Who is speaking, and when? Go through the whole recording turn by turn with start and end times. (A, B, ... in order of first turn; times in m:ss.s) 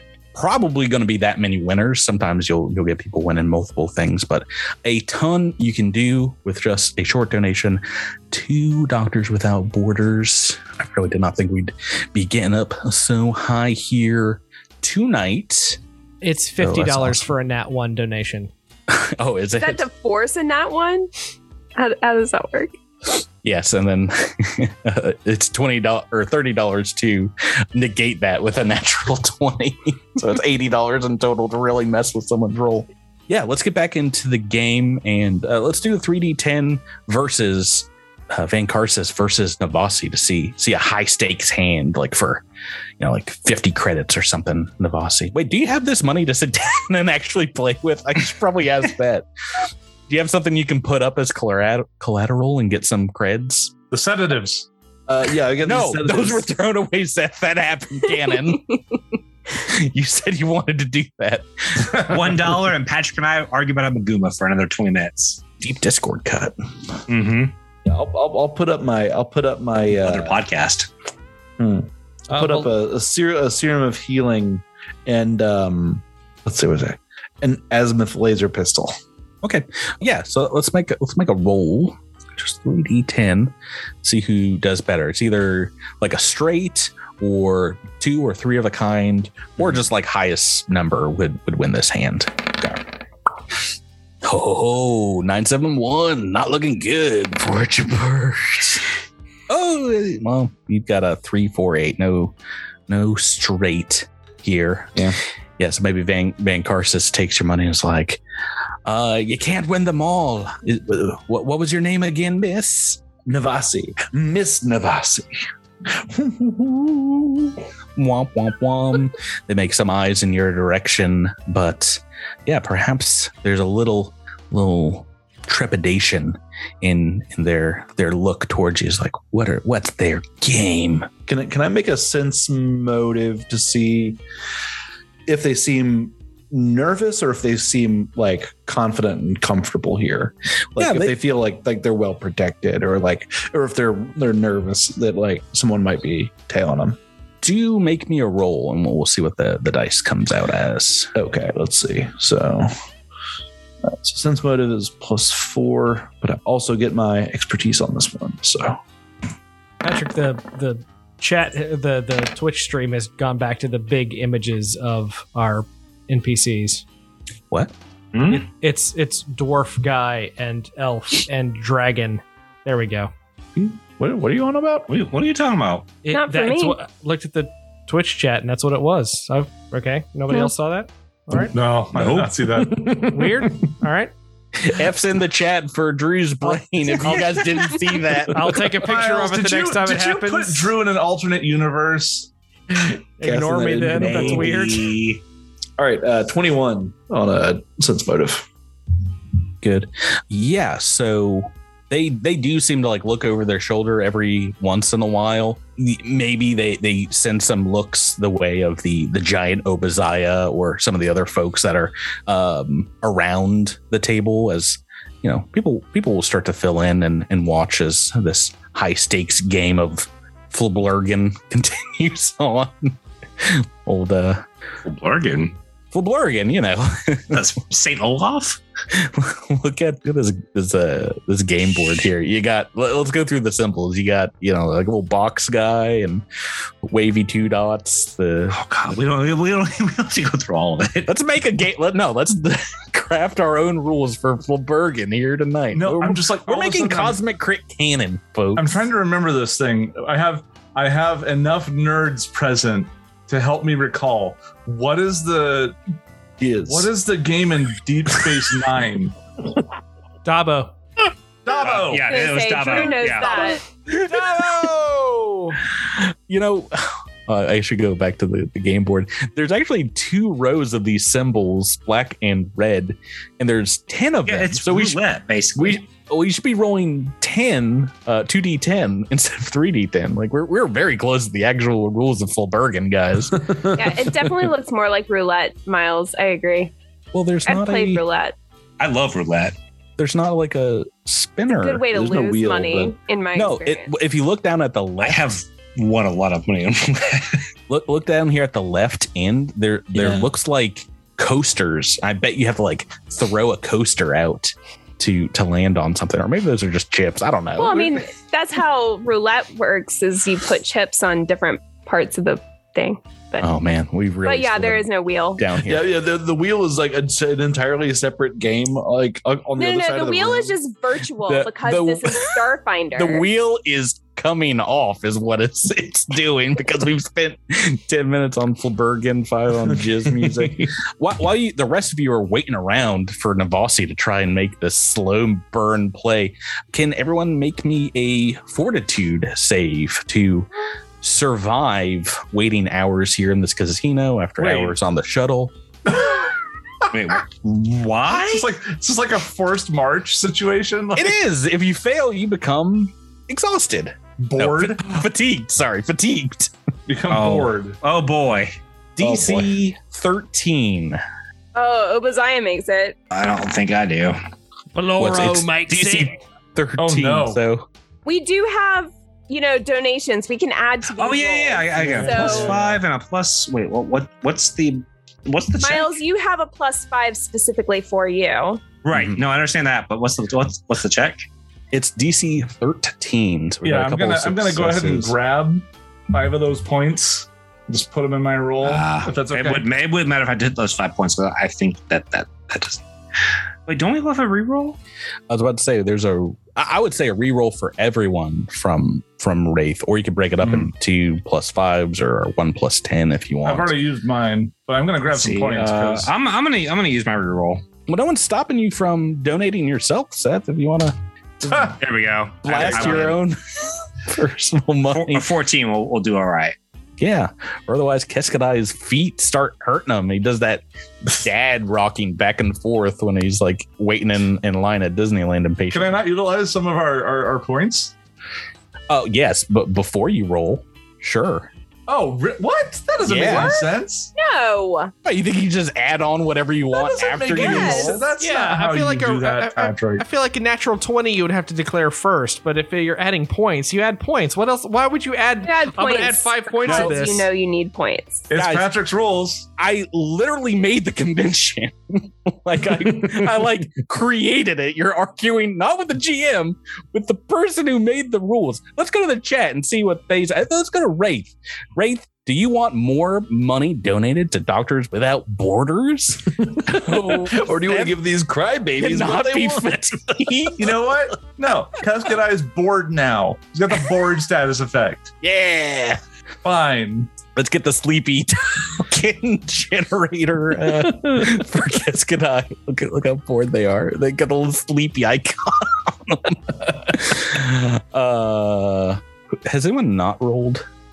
0:00.3-0:15.8 A
0:16.2-0:18.5 B
0:16.6-0:17.3 A
0:18.9-0:19.8 A
0:19.6-0:21.1 C
0:21.8-0:22.7 C
0:23.4-0:42.4 A
0:43.0-0:49.2 A
0:50.1-0:53.7 A
0:53.9-0:54.7 D
0:55.1-0:56.5 E
0:55.6-0:58.8 A
0:59.5-1:02.1 A
1:02.0-1:05.4 F
1:05.6-1:06.5 A
1:07.1-1:07.5 F
1:07.8-1:10.4 E
1:09.9-1:10.9 F
1:11.6-1:19.0 E
1:12.3-1:12.7 B
1:19.4-1:32.8 A
1:34.2-1:38.9 A
1:39.5-1:42.3 A
1:42.9-1:45.0 A
1:45.6-1:48.2 A
1:48.8-1:53.0 A
1:53.2-1:55.3 E
1:55.8-1:57.6 E
1:58.0-2:11.1 A
2:11.3-2:14.2 E
2:15.3-2:27.0 E
2:20.8-2:21.1 A
2:27.4-2:31.1 A
2:31.1-2:32.7 E
2:33.8-2:38.8 E
2:39.8-2:46.8 B
2:48.1-2:48.5 F
2:48.4-2:53.1 B
2:53.6-2:54.9 E
2:54.9-2:56.0 F
2:56.0-3:01.5 B
2:56.1-2:56.8 C
3:01.5-3:03.1 D
3:02.0-3:02.3 F
3:02.5-3:03.5 E
3:03.0-3:04.1 B
3:04.6-3:08.7 A
3:06.4-3:07.7 B
3:08.3-3:10.7 B
3:08.8-3:12.3 D
3:12.7-3:14.8 E
3:13.2-3:14.9 B
3:13.9-3:15.2 F
3:15.8-3:18.5 E
3:19.6-3:44.4 A
3:44.8-3:45.5 F
3:45.9-3:47.3 A
3:47.3-3:48.6 F
3:48.9-3:56.2 A
3:56.8-3:58.6 A
3:58.5-4:01.1 F
4:01.0-4:08.9 A
4:05.7-4:07.2 D
4:08.6-4:15.8 D
4:16.4-4:16.9 E
4:16.7-4:19.1 D
4:20.2-4:20.7 B
4:21.4-4:22.3 D
4:21.5-4:23.5 F
4:22.0-4:23.6 C
4:23.9-4:25.2 A
4:24.1-4:25.2 B
4:25.8-4:35.0 A
4:34.2-4:35.8 F
4:35.5-4:43.7 A
4:43.5-4:43.8 E
4:43.7-4:46.7 C
4:47.1-4:48.0 A
4:47.4-4:48.3 C
4:48.8-4:49.5 F
4:50.0-4:51.8 A
4:51.5-4:53.9 C
4:51.9-4:53.0 E
4:53.3-4:55.2 A
4:55.0-4:57.4 F
4:57.7-5:08.0 A
4:59.9-5:00.3 E
5:07.6-5:13.5 C
5:13.4-5:15.9 A
5:14.2-5:15.4 C
5:15.6-5:20.6 E
5:19.6-5:23.2 C
5:21.2-5:22.4 A
5:22.9-5:40.5 A
5:29.6-5:30.7 E
5:41.0-5:45.5 A
5:44.4-5:44.7 D
5:45.8-5:46.3 D
5:46.9-5:48.5 F
5:48.1-5:51.2 D
5:51.0-5:56.5 A
5:54.2-5:54.9 D
5:56.9-5:57.8 D
5:57.1-5:58.5 F
5:59.0-6:01.0 A
5:59.0-5:59.5 E
6:01.5-6:02.9 C
6:03.1-6:04.2 F
6:04.8-6:06.0 B
6:05.0-6:07.7 A
6:06.8-6:07.4 D
6:08.0-6:12.6 C
6:10.9-6:15.9 F
6:11.8-6:12.8 D
6:15.6-6:18.6 C
6:18.8-6:21.3 F
6:18.9-6:19.2 A
6:21.7-6:25.1 A
6:23.6-6:29.7 D
6:28.6-6:32.8 F
6:33.7-6:34.8 F
6:35.3-6:43.7 A
6:43.4-6:46.1 D
6:45.1-6:47.6 F
6:47.9-6:51.7 A
6:51.5-6:51.7 D
6:51.7-6:53.2 F
6:52.4-6:53.4 A
6:52.6-6:53.0 D
6:54.0-6:55.3 A
6:54.9-6:56.6 F
6:57.0-7:06.0 A
7:05.7-7:07.9 D
7:08.9-7:11.5 A
7:11.9-7:14.1 D
7:13.0-7:13.6 A
7:13.2-7:14.9 C
7:15.0-7:18.1 A
7:16.7-7:20.0 D
7:17.3-7:18.0 C
7:18.2-7:27.3 B
7:25.4-7:28.2 C
7:28.3-7:29.5 D
7:28.3-7:28.7 A
7:29.6-7:48.0 A
7:46.4-7:50.3 E
7:48.8-7:50.7 A
7:50.6-7:55.1 D
7:55.2-7:56.0 A
7:56.4-7:57.1 D
7:57.3-8:10.6 A
8:00.8-8:01.3 E